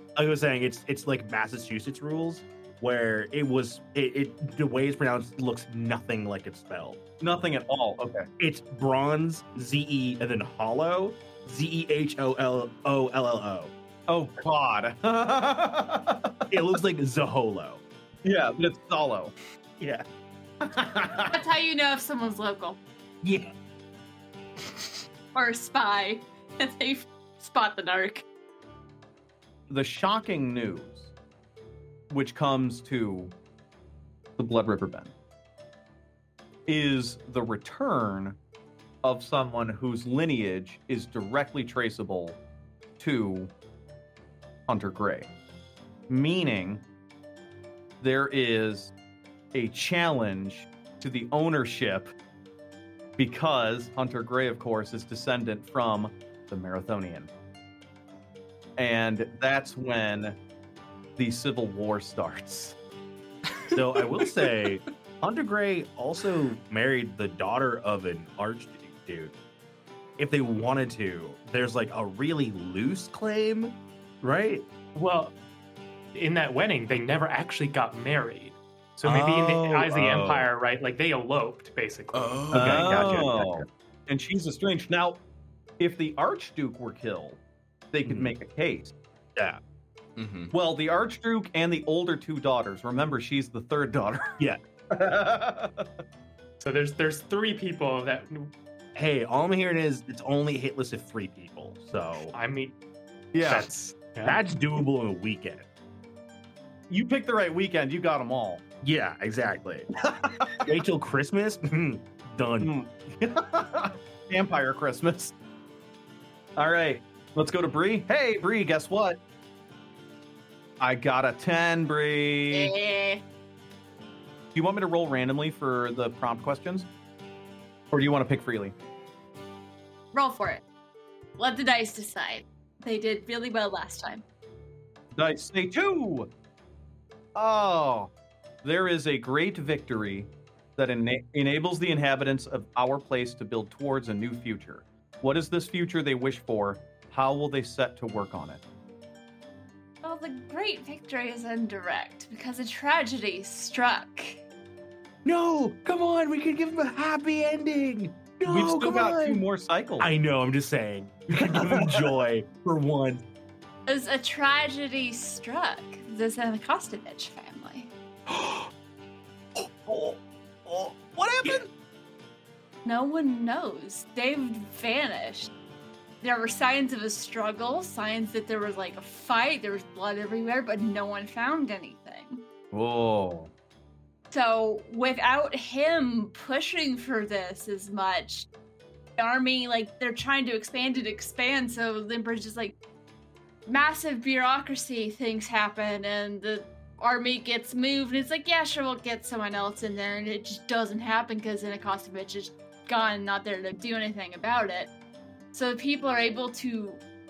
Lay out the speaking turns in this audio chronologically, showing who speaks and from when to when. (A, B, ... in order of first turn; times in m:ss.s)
0:00.2-0:07.0 A
0:07.2-0:08.3 B
0:08.4-0:13.7 A
0:14.1-0:16.5 B
0:16.5-0:17.8 A
0:18.2-0:19.3 B
0:19.8-0:20.0 A
0:20.6-0:21.4 A
0:21.3-0:22.8 C
0:23.2-0:23.5 A
0:25.3-0:28.2 C
0:29.7-0:31.1 B
0:32.1-0:33.3 B
0:34.4-0:35.1 B
0:36.7-0:38.4 B
0:39.0-0:42.4 B
0:43.0-0:43.5 B
0:44.7-0:45.3 B
0:46.1-0:46.8 B
0:48.0-0:48.9 B
0:49.5-0:52.1 B
0:53.2-0:57.3 B
0:58.8-1:00.4 B
1:01.2-1:02.7 B
1:03.7-1:04.8 D
1:03.7-1:09.3 A
1:10.2-1:14.6 A
1:14.9-1:15.3 E
1:16.1-1:22.5 E
1:19.0-1:20.5 B
1:22.1-1:23.2 D
1:22.5-1:23.7 A
1:22.5-1:25.2 B
1:25.8-1:27.4 B
1:27.9-1:28.9 B
1:28.0-1:28.4 A
1:30.2-1:30.5 D
1:30.5-1:34.4 B
1:34.9-1:35.8 B
1:36.6-1:38.5 E
1:38.9-1:42.3 A
1:42.2-1:42.7 E
1:43.3-1:43.7 B
1:43.4-1:44.4 E
1:44.2-1:45.6 A
1:46.9-1:48.6 B
1:48.8-1:49.9 A
1:50.1-1:50.7 B
1:50.6-1:52.7 A
1:52.6-1:55.3 B
1:56.6-1:59.2 B
2:00.8-2:02.7 B
2:02.5-2:03.2 C
2:04.5-2:06.9 B
2:07.9-2:08.7 B
2:10.1-2:10.6 C
2:11.4-2:14.2 C
2:15.1-2:16.3 B
2:17.3-2:18.1 B
2:18.6-2:28.6 B
2:30.0-2:34.4 C
2:35.2-2:39.4 A
2:38.4-2:40.1 B
2:40.0-2:43.2 A
2:41.3-2:42.2 B
2:43.9-2:47.9 C
2:48.3-2:48.6 B
2:49.9-2:51.6 B
2:50.9-2:51.6 A
2:52.8-2:55.5 C
2:56.2-3:02.4 C
3:02.7-3:03.5 B
3:04.3-3:08.5 C
3:09.2-3:12.7 C
3:13.7-3:24.9 C
3:25.5-3:27.0 C